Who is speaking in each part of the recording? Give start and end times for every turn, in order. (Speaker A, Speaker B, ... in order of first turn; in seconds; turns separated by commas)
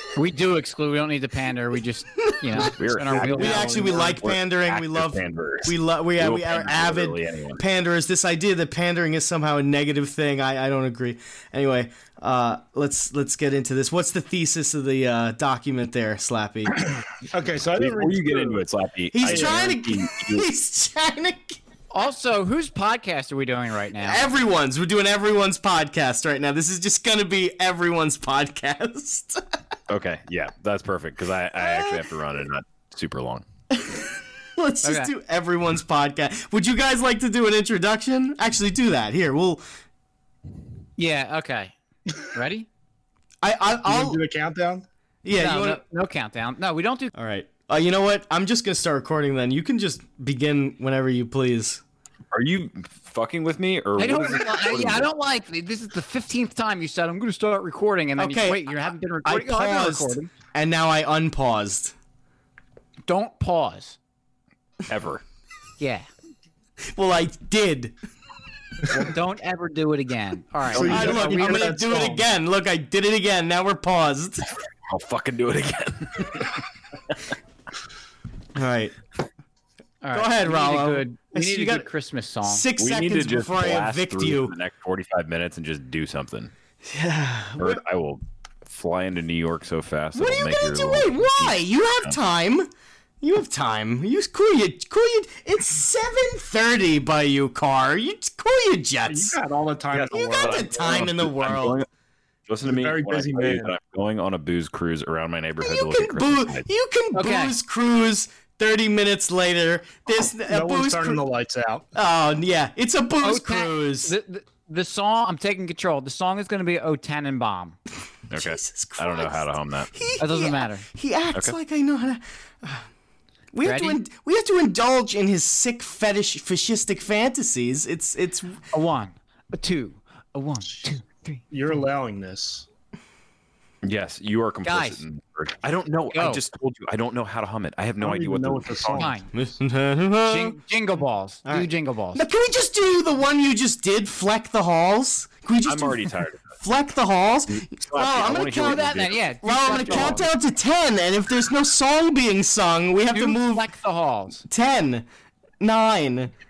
Speaker A: 0.1-4.1, Speaker B: 2.2-16.9, Speaker C: 2.5-7.6, Speaker D: 17.3-18.6, Speaker C: 17.8-20.4, Speaker B: 19.1-21.6, Speaker D: 19.2-19.5, Speaker A: 21.9-24.2, Speaker B: 24.0-29.4, Speaker C: 29.9-33.5, Speaker B: 31.6-32.0, Speaker B: 33.7-39.6, Speaker A: 34.8-35.1, Speaker A: 41.0-41.7, Speaker A: 42.2-42.7, Speaker B: 43.4-44.2, Speaker D: 43.9-44.8, Speaker B: 45.2-45.8, Speaker A: 45.3-47.1, Speaker B: 47.1-51.8, Speaker C: 52.3-55.1, Speaker A: 54.0-60.3, Speaker B: 58.2-58.7, Speaker B: 59.2-61.9, Speaker A: 63.1-64.0, Speaker C: 64.9-65.2, Speaker A: 65.8-66.1, Speaker B: 66.9-67.9, Speaker A: 68.9-71.7, Speaker D: 70.7-72.3, Speaker B: 70.8-74.5, Speaker C: 74.9-76.6, Speaker B: 78.5-79.0, Speaker A: 80.0-82.7, Speaker B: 80.1-81.9, Speaker B: 82.4-84.5, Speaker C: 82.8-86.5, Speaker B: 86.8-87.8, Speaker C: 87.6-92.1, Speaker B: 90.1-92.7, Speaker B: 93.2-99.4, Speaker D: 99.0-101.1, Speaker C: 99.9-101.9, Speaker B: 100.1-101.8, Speaker C: 102.5-106.6, Speaker D: 102.7-103.7, Speaker B: 105.6-111.2, Speaker A: 107.1-107.5, Speaker D: 110.5-111.9, Speaker B: 111.9-114.1, Speaker A: 113.2-117.8, Speaker C: 118.3-119.9, Speaker B: 118.3-122.9, Speaker A: 120.2-120.8, Speaker B: 123.5-128.6, Speaker A: 123.6-124.0, Speaker A: 128.7-131.4, Speaker D: 131.5-132.7, Speaker C: 133.8-139.1, Speaker A: 134.6-135.0, Speaker A: 136.1-136.4, Speaker D: 138.0-139.2, Speaker A: 138.9-139.3, Speaker B: 139.3-140.6, Speaker A: 140.2-142.2, Speaker B: 141.4-153.7, Speaker C: 145.7-146.5, Speaker C: 147.5-150.2, Speaker A: 148.6-150.3, Speaker A: 153.1-154.4, Speaker B: 154.5-155.1, Speaker B: 155.6-156.3